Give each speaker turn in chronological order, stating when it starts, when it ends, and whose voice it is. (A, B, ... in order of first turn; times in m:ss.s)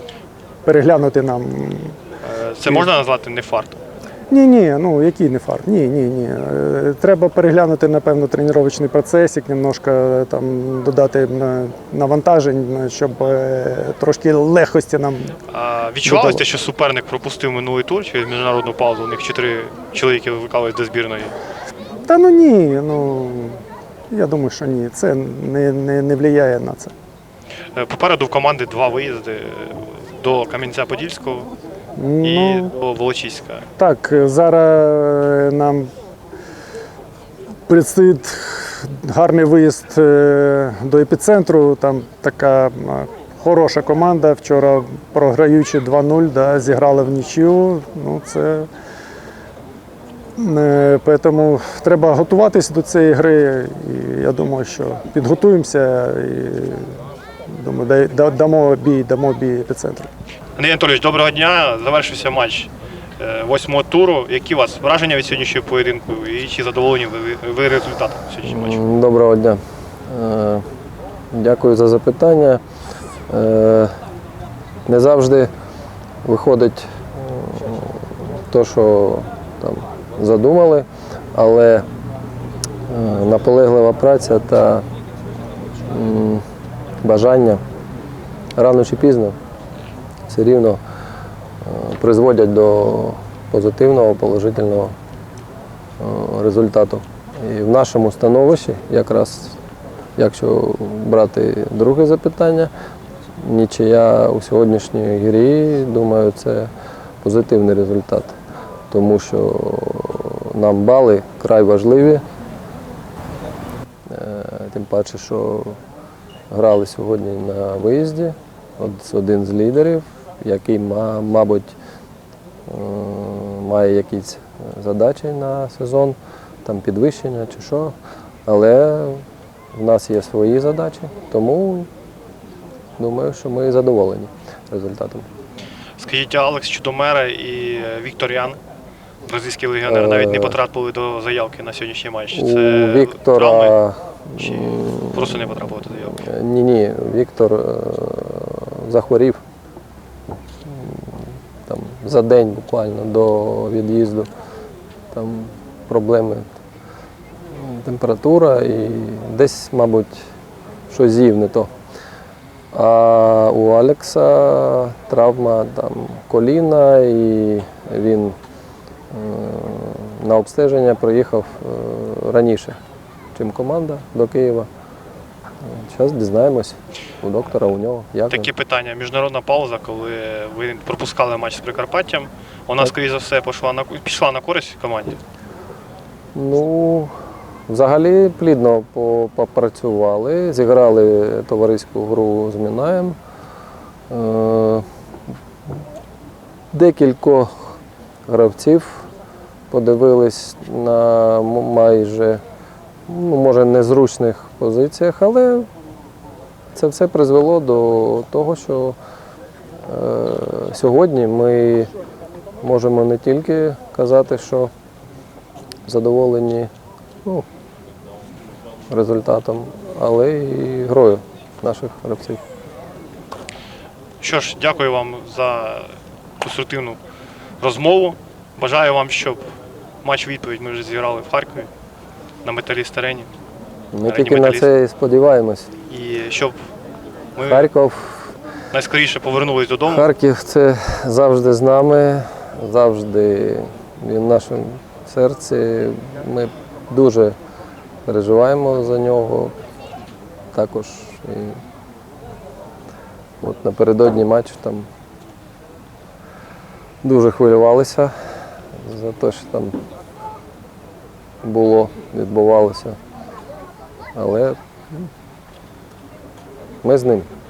0:00.6-0:02.0 A
0:02.2-0:03.8 B
0:04.3-0:15.3 A
0:15.5-0:21.3 B
0:16.0-0:16.4 A
0:22.1-0:23.6 A
0:24.1-0:26.9 A
0:27.7-0:31.5 B
0:32.0-0:32.7 A
0:32.2-0:33.6 B
0:33.8-0:35.9 A
0:37.7-0:48.7 A
0:50.4-0:57.0 A
0:57.5-1:00.1 A
1:00.6-1:08.8 B
1:08.4-1:10.6 C
1:11.3-1:12.6 C
1:13.3-1:13.9 C
1:14.8-1:15.5 C
1:16.2-1:21.8 C
1:22.9-1:24.8 C
1:25.8-1:26.4 C
1:27.0-1:27.6 C
1:28.6-1:29.4 C
1:30.3-1:30.8 C
1:31.6-1:34.9 C
1:36.0-1:39.6 C
1:40.2-1:42.7 C
1:43.4-1:46.7 C
1:47.2-1:48.4 C
1:48.9-1:52.2 C
1:54.1-1:55.8 C
1:56.5-2:01.7 C
2:02.7-2:11.9 C
2:13.0-2:15.3 C
2:16.0-2:18.6 B
2:19.2-2:23.8 B
2:19.8-2:20.6 C
2:22.3-2:29.4 C
2:24.4-2:26.3 B
2:30.6-2:34.3 C
2:35.1-2:36.5 C
2:37.5-2:40.2 C
2:40.9-2:41.7 C
2:42.7-2:48.4 C
2:49.1-2:52.8 C
2:53.3-2:54.7 C
2:55.6-2:58.5 C
2:58.3-3:05.2 B
3:06.3-3:07.1 C
3:07.7-3:13.2 C
3:14.1-3:14.8 C
3:16.7-3:19.1 C
3:19.7-3:22.4 C
3:23.1-3:25.7 C
3:26.7-3:29.0 C
3:29.8-3:31.9 C
3:32.6-3:34.7 C
3:35.8-3:36.7 C
3:38.9-3:42.4 C
3:44.2-3:47.0 B
3:47.6-3:51.7 B
3:52.4-3:53.3 B
3:53.9-3:55.7 C
3:54.0-3:54.7 B
3:55.9-3:56.6 B
3:57.3-3:57.7 B
3:57.4-3:58.3 C
3:58.7-4:00.1 B
3:59.8-4:07.4 C
4:08.0-4:09.5 C
4:10.5-4:11.6 C
4:13.4-4:14.9 C
4:17.0-4:18.1 C
4:18.7-4:19.8 C
4:21.4-4:23.0 C
4:24.1-4:24.6 C
4:26.8-4:27.3 C